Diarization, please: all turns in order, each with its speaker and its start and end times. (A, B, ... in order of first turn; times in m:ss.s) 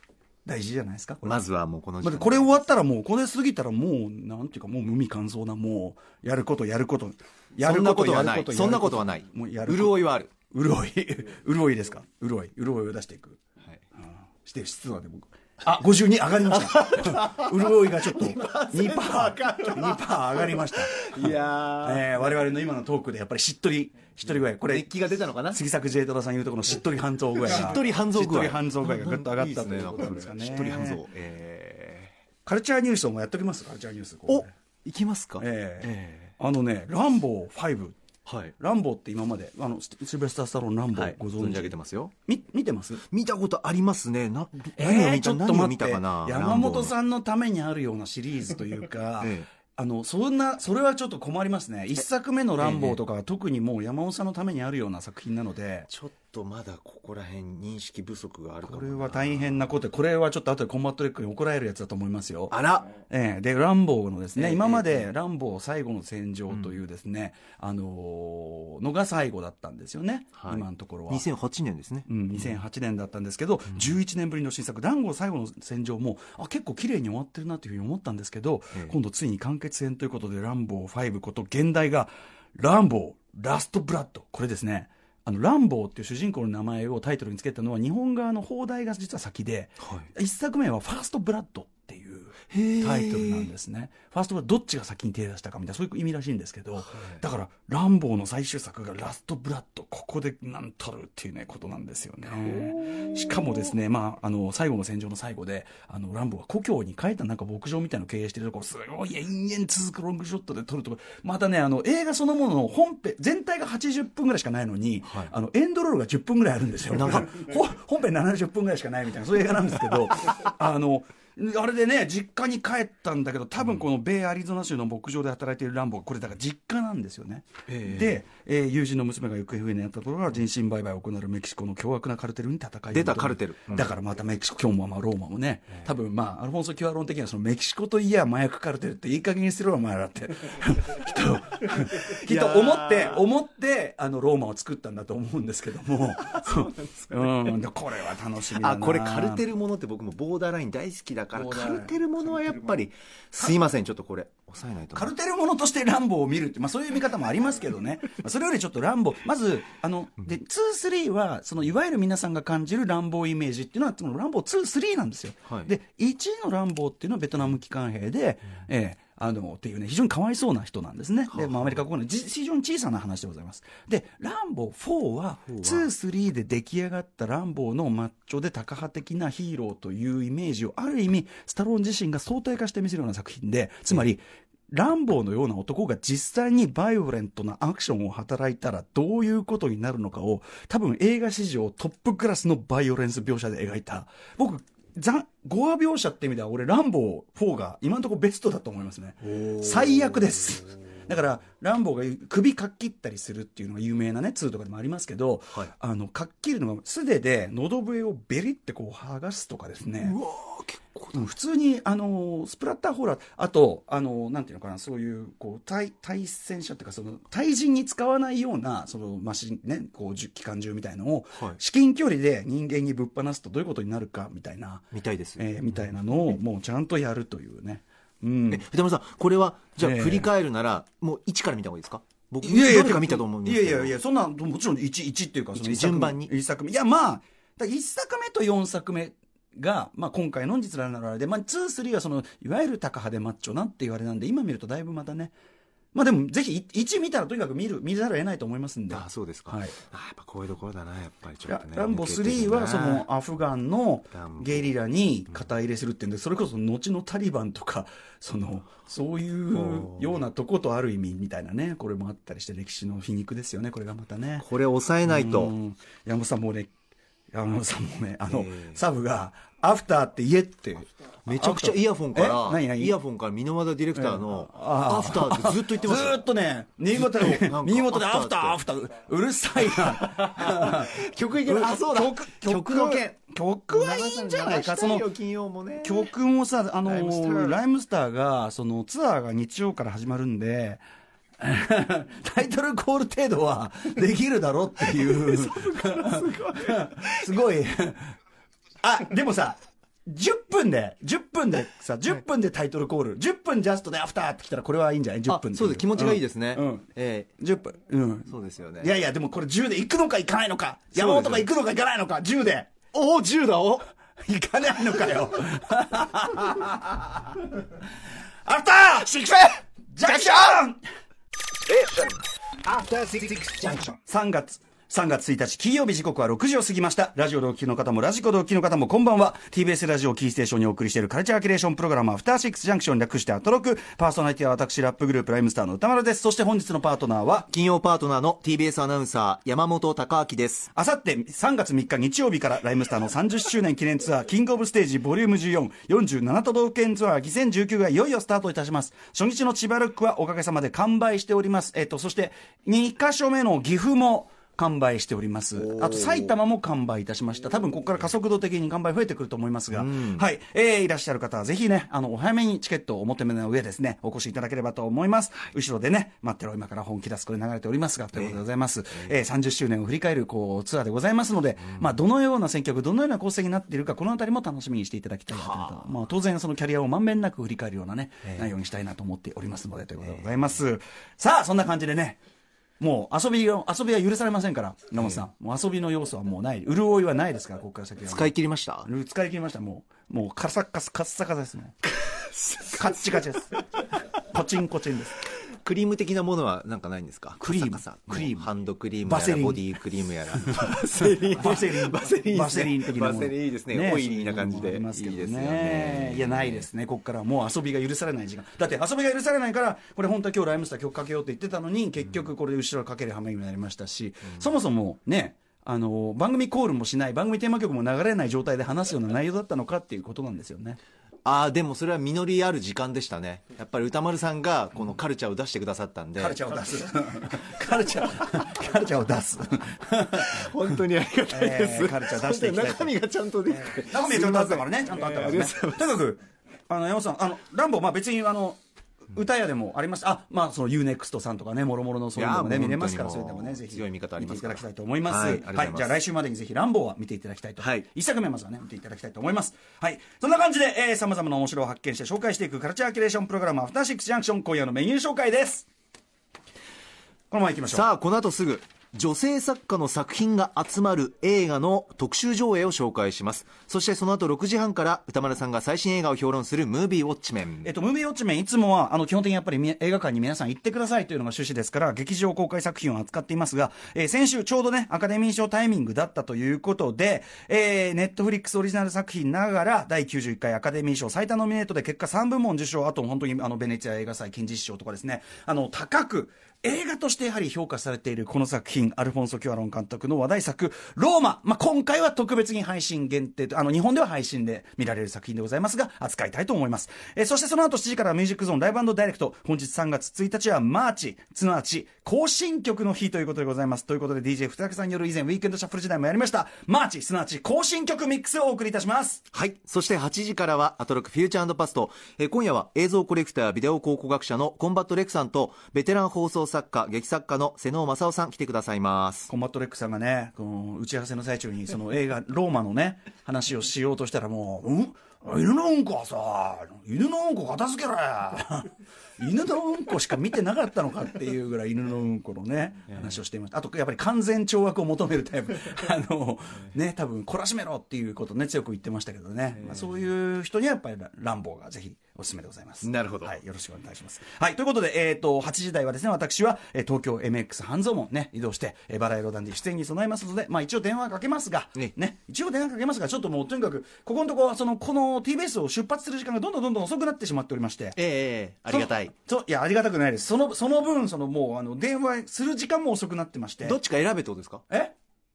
0:00.5-0:01.4 A
0:01.2-0:02.6 B
0:02.0-0:13.4 A
0:07.6-0:10.3 B
0:14.0-0:24.9 A
0:16.5-0:22.1 B
0:24.6-0:25.6 B
0:25.4-0:31.0 A
0:27.4-0:32.1 B
0:32.4-0:34.5 A
0:34.3-0:36.3 B
0:35.4-0:38.0 A
0:38.3-0:38.6 B
0:38.6-0:43.0 A
0:40.9-0:42.1 B
0:43.1-0:46.9 B
0:44.8-0:55.9 A
0:49.2-0:49.5 B
0:52.6-0:53.0 B
0:55.9-0:59.7 B
0:58.6-1:02.6 A
1:02.5-1:03.0 B
1:03.1-1:11.2 A
1:04.4-1:05.1 B
1:06.5-1:06.8 B
1:10.4-1:12.5 B
1:12.1-2:29.4 A
1:29.8-1:30.1 B
1:32.5-1:33.5 B
1:37.0-1:37.2 B
1:42.4-1:43.3 B
1:55.0-1:55.3 B
1:56.9-1:57.3 B
2:07.7-2:08.2 B
2:12.9-2:13.9 B
2:22.0-2:23.2 B
2:26.2-2:27.6 B
2:28.6-2:35.1 B
2:31.3-2:31.9 A
2:34.9-3:30.2 A
2:51.3-2:51.8 B
2:55.5-2:55.9 B
3:19.3-3:20.2 B
3:30.0-3:31.2 B
3:31.1-3:48.6 A
3:44.9-3:45.4 B
3:48.5-3:54.0 B
3:49.8-3:50.3 A
3:52.4-4:05.3 A
3:55.6-3:56.3 B
4:05.9-4:09.8 A
4:08.9-4:13.0 B
4:11.4-4:24.5 A
4:14.1-4:14.7 B
4:19.5-4:20.2 B
4:24.4-4:25.5 B
4:25.1-4:26.7 A
4:27.3-4:33.0 A
4:28.3-4:28.8 B
4:31.3-4:36.2 B
4:34.0-4:45.1 A
4:36.9-4:38.6 B
4:39.7-4:46.1 B
4:45.8-4:50.8 A
4:46.8-4:47.6 B
4:51.4-4:58.1 A
4:55.0-4:57.1 B
4:58.8-5:06.9 A
5:05.3-5:07.3 B
5:07.4-5:12.7 A
5:08.3-5:08.9 B
5:10.9-5:11.5 B
5:12.9-5:13.9 B
5:14.2-5:17.4 A
5:18.4-5:20.8 A
5:20.0-5:20.5 B
5:21.7-5:22.2 B
5:22.7-5:23.8 B
5:24.0-5:37.5 A
5:37.5-5:40.7 B
5:40.7-6:22.2 A
5:55.6-5:56.3 B
5:59.7-6:00.2 B
6:08.1-6:08.4 B
6:15.3-6:15.9 B
6:22.8-6:31.7 A
6:28.0-6:28.9 B
6:32.0-6:33.3 B
6:32.7-6:33.6 A
6:34.2-6:35.2 A
6:35.4-6:46.7 B
6:37.4-6:38.5 A
6:39.0-6:39.7 A
6:40.4-7:00.8 A
7:01.2-7:06.4 B
7:06.2-7:10.5 A
7:10.2-7:15.9 B
7:11.3-7:13.0 A
7:13.5-7:18.6 A
7:19.1-7:35.7 A
7:22.2-7:26.0 B
7:27.6-7:27.9 B
7:37.3-7:37.9 A
7:37.7-7:47.7 B
7:47.6-8:29.2 A
8:29.3-8:39.3 B
8:39.3-9:18.0 A
9:02.8-9:03.4 B
9:18.0-9:19.1 B
9:18.7-9:23.8 A
9:23.6-9:24.6 B